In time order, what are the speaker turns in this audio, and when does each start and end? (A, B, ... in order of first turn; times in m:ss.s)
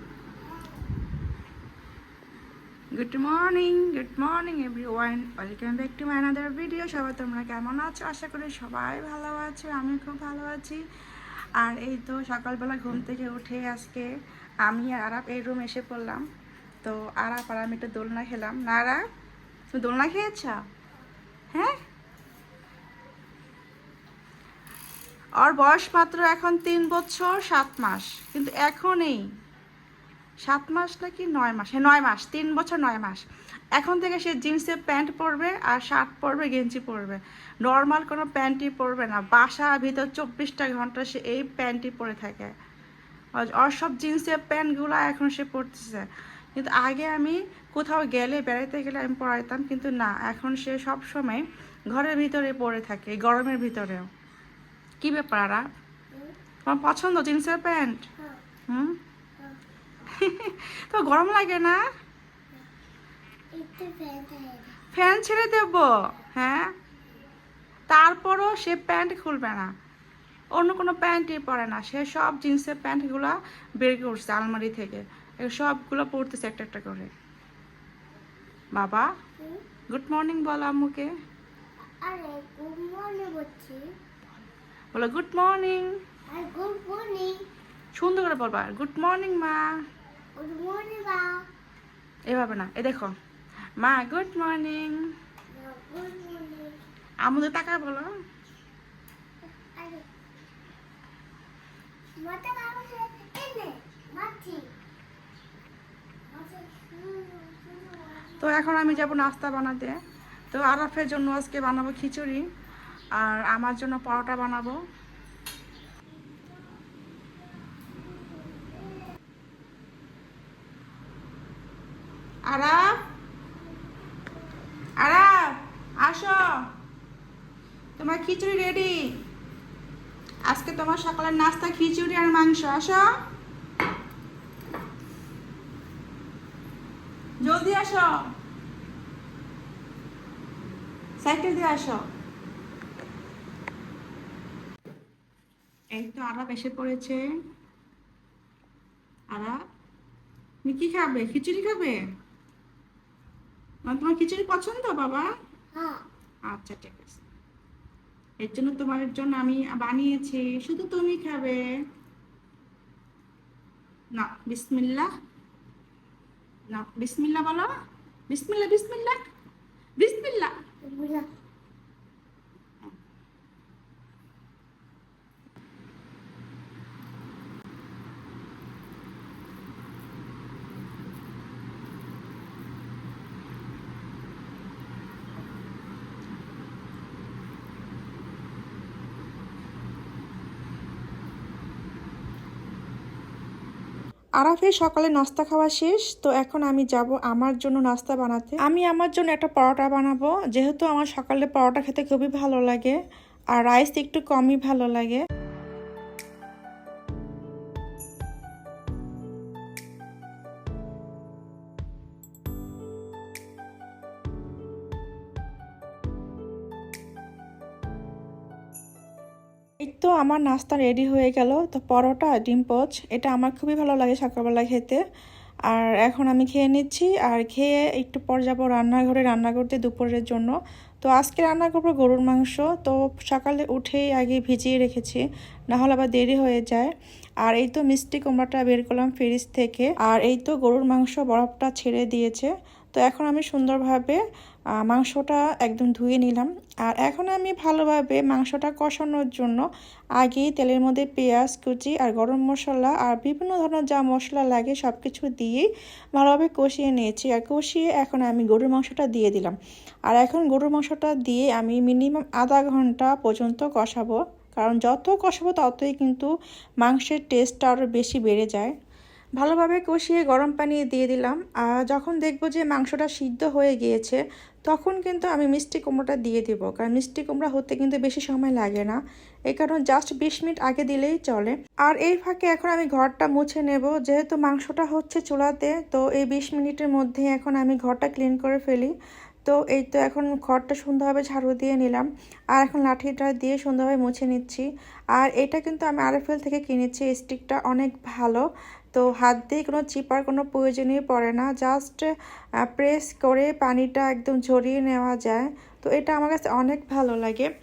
0:02.9-0:10.8 A
0:11.6-0:14.1 A
0:14.6-0:16.2 A
0:16.8-0:19.0 A
0:19.7-0:20.6 A
0:21.5-0:21.8 A
0:25.4-0:29.3 A
0:30.4-0:42.5 A
0:43.4-0:54.1 A
0:55.0-0:55.7 A
0:56.6-0:58.0 A
1:00.6-1:01.8 A
1:03.5-1:04.8 B
1:04.9-1:06.7 A
1:07.9-1:09.7 A
1:10.5-1:17.1 A
1:18.7-1:19.1 A
1:19.9-1:21.1 A
1:22.0-1:23.8 B
1:24.9-1:25.9 A
1:26.3-1:27.4 B
1:28.0-1:29.6 A
1:30.4-1:31.4 B
1:32.3-1:33.1 A
1:33.8-1:35.0 A
1:35.5-1:36.8 B
1:37.2-1:38.1 A
1:39.8-1:40.0 B
1:42.2-1:44.7 B
1:46.3-1:48.9 B
1:48.4-1:50.0 A
1:50.5-1:52.4 A
1:53.2-1:54.8 A
1:58.1-1:59.0 B
2:02.5-2:02.9 A
2:05.0-2:05.5 A
2:06.0-2:06.6 A
2:08.0-2:09.0 A
2:10.5-2:13.0 A
2:17.4-2:18.2 A
2:21.2-2:22.0 A
2:25.9-2:27.2 A
2:29.3-2:29.6 A
2:30.6-2:32.0 A
2:33.8-2:35.3 A
2:35.7-2:36.0 B
2:36.5-2:37.2 A
2:38.4-2:41.6 A
2:44.1-2:45.1 A
2:46.7-2:47.7 A
2:48.3-2:49.2 A
2:50.0-2:50.6 A
2:50.8-2:51.3 B
3:14.4-3:23.0 A
3:23.5-3:25.2 A
3:39.8-3:45.0 A
3:45.7-3:50.5 A
3:51.0-3:56.9 A
3:57.4-4:04.2 A
4:04.8-4:09.6 A
4:10.2-4:19.6 A
4:20.1-4:26.3 A
4:26.8-4:28.7 A
4:29.4-4:39.0 A
4:39.5-4:48.9 A
4:49.4-5:02.1 A
5:02.7-5:07.5 A